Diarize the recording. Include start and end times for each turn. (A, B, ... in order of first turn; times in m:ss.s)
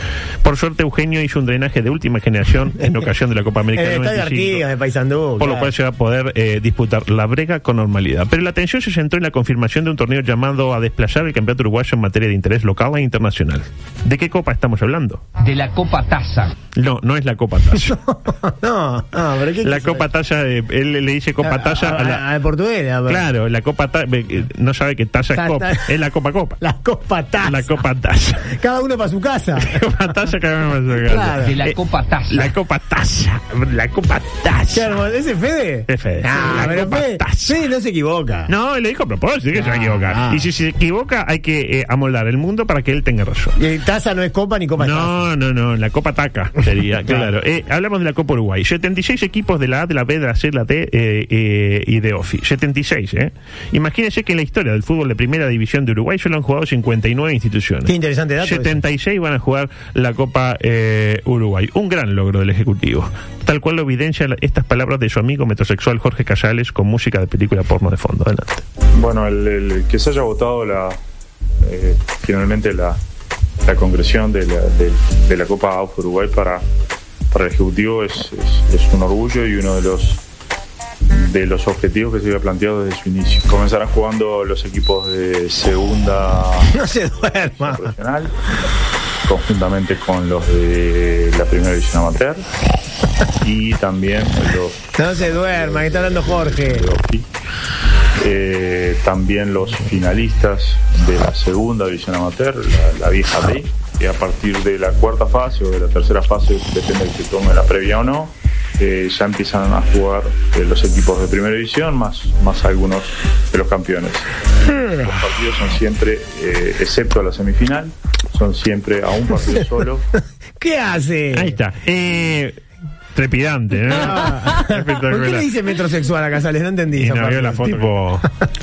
0:00.4-0:04.6 A
0:03.8-0:05.7 B
0:05.4-0:15.2 A
0:15.4-0:16.5 C
0:16.8-0:18.0 A
0:17.8-0:20.1 B
0:19.6-0:22.2 A
0:21.4-0:23.2 B
0:23.1-0:26.6 A
0:25.3-0:25.9 B
0:26.6-0:27.8 B
0:27.4-0:28.5 A
0:28.4-0:29.8 B
0:29.6-0:31.8 A
0:31.0-0:31.6 B
0:31.5-0:32.5 C
0:32.3-0:34.9 A
0:34.7-0:38.5 B
0:35.9-0:37.6 A
0:38.5-0:43.6 A
0:39.5-0:40.5 B
0:43.6-0:45.2 B
0:44.8-1:08.6 A
0:47.0-0:47.3 B
0:57.9-0:58.8 B
1:08.9-1:11.0 D
1:11.6-1:13.0 D
1:13.6-1:16.6 D
1:17.3-1:20.2 D
1:21.1-1:26.7 D
1:26.7-1:27.9 B
1:27.4-1:28.3 D
1:29.3-1:32.4 D
1:33.4-1:37.3 D
1:35.0-1:36.9 B
1:38.2-1:54.3 D
1:54.7-1:55.1 B
1:54.8-2:00.0 D
2:00.6-2:01.6 B
2:01.3-2:02.6 A
2:03.2-2:05.5 A
2:03.9-2:07.9 B
2:07.0-2:08.3 A